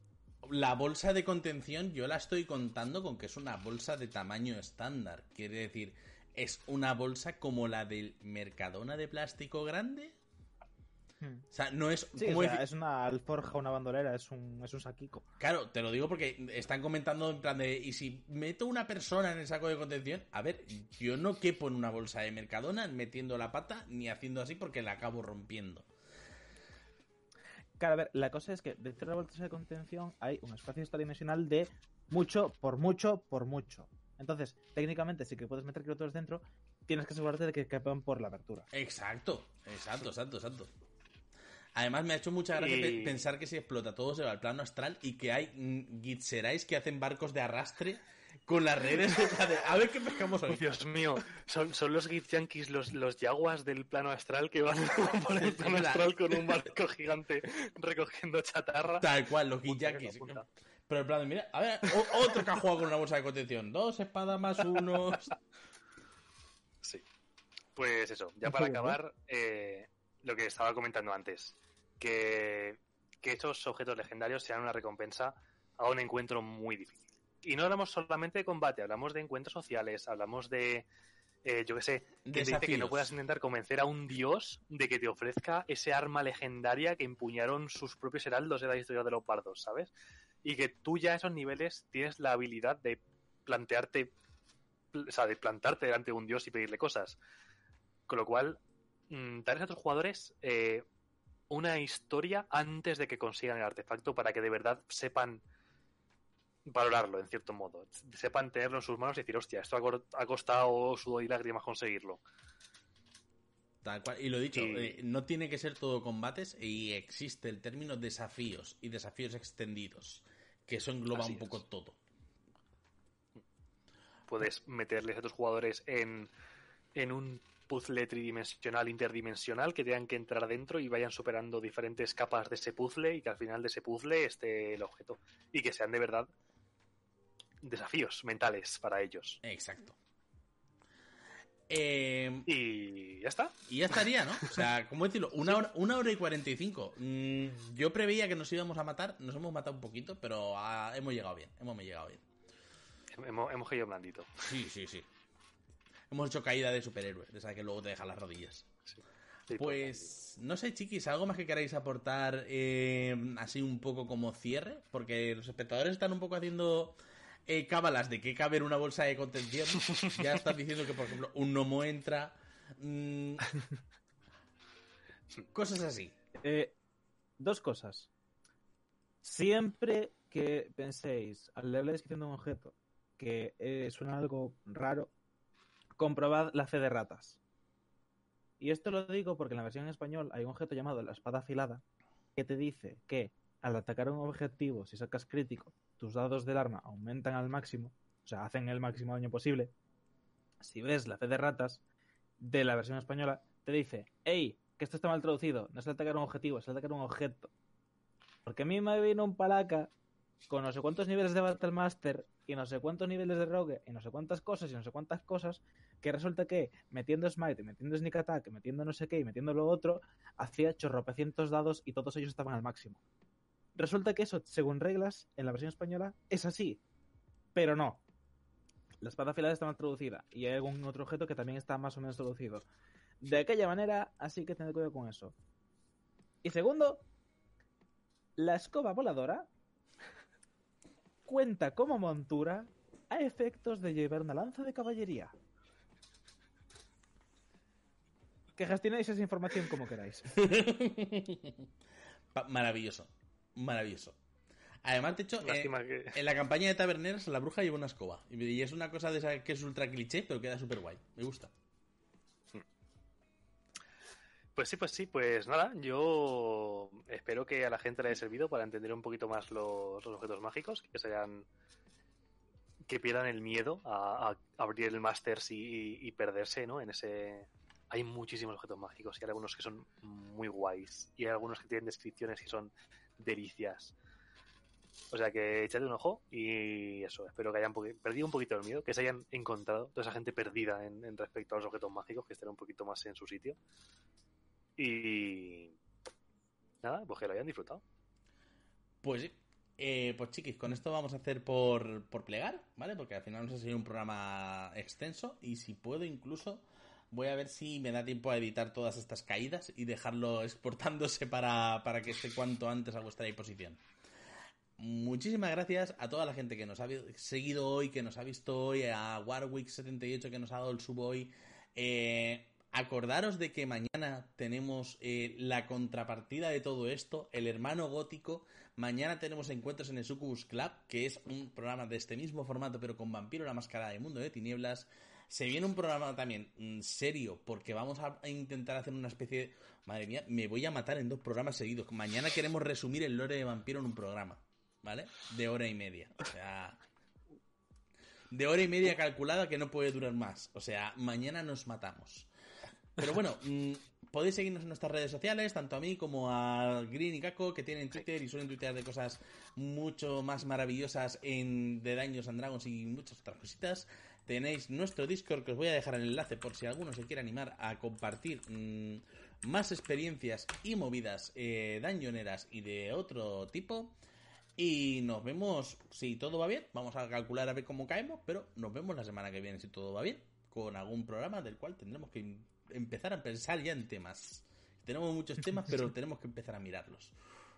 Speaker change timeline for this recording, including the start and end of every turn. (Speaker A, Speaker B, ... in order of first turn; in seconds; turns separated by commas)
Speaker A: 0.4-10.2, Speaker B: 11.2-11.4, Speaker A: 11.5-12.6, Speaker B: 12.2-15.3, Speaker A: 15.4-25.9, Speaker B: 27.8-38.7, Speaker A: 38.7-40.7, Speaker A: 41.8-50.6, Speaker C: 42.5-43.2, Speaker C: 50.5-59.1, Speaker A: 55.3-56.2, Speaker A: 59.0-65.3, Speaker C: 59.7-60.4, Speaker C: 67.8-80.9, Speaker C: 81.4-89.9, Speaker A: 82.2-83.1, Speaker C: 90.4-94.1, Speaker C: 94.9-97.2, Speaker C: 98.1-100.8, Speaker C: 101.5-105.4, Speaker C: 106.7-112.2, Speaker A: 113.8-122.0, Speaker C: 114.5-115.0, Speaker C: 121.1-121.6, Speaker C: 124.3-126.3, Speaker C: 127.0-136.3, Speaker C: 137.6-139.4, Speaker A: 139.4-140.0, Speaker A: 141.7-142.5, Speaker C: 142.5-144.6, Speaker A: 143.7-152.2, Speaker C: 153.1-154.5, Speaker A: 154.5-155.1, Speaker A: 156.1-158.7, Speaker C: 158.9-160.1, Speaker A: 159.5-173.5, Speaker A: 175.5-176.2, Speaker B: 176.3-176.8, Speaker B: 177.4-178.1, Speaker B: 179.2-185.1, Speaker B: 186.0-187.4, Speaker B: 188.6-191.8, Speaker B: 192.4-199.7, Speaker B: 200.6-201.8, Speaker B: 202.4-207.5, Speaker B: 208.4-209.9, Speaker B: 210.5-223.0, Speaker B: 223.8-226.8, Speaker B: 227.6-228.0, Speaker B: 229.0-232.7, Speaker B: 233.2-235.3, Speaker B: 236.4-237.1, Speaker B: 238.4-239.5, Speaker B: 241.2-245.3, Speaker B: 248.6-250.3, Speaker A: 250.3-251.7, Speaker A: 252.3-254.2, Speaker A: 254.8-261.5, Speaker C: 255.4-256.2, Speaker C: 264.6-271.5, Speaker C: 272.9-283.9, Speaker C: 285.1-293.6, Speaker C: 294.8-295.8, Speaker C: 296.8-297.8, Speaker A: 299.0-313.8, Speaker A: 314.8-346.8, Speaker A: 348.3-352.3, Speaker A: 353.0-374.0, Speaker A: 374.6-387.1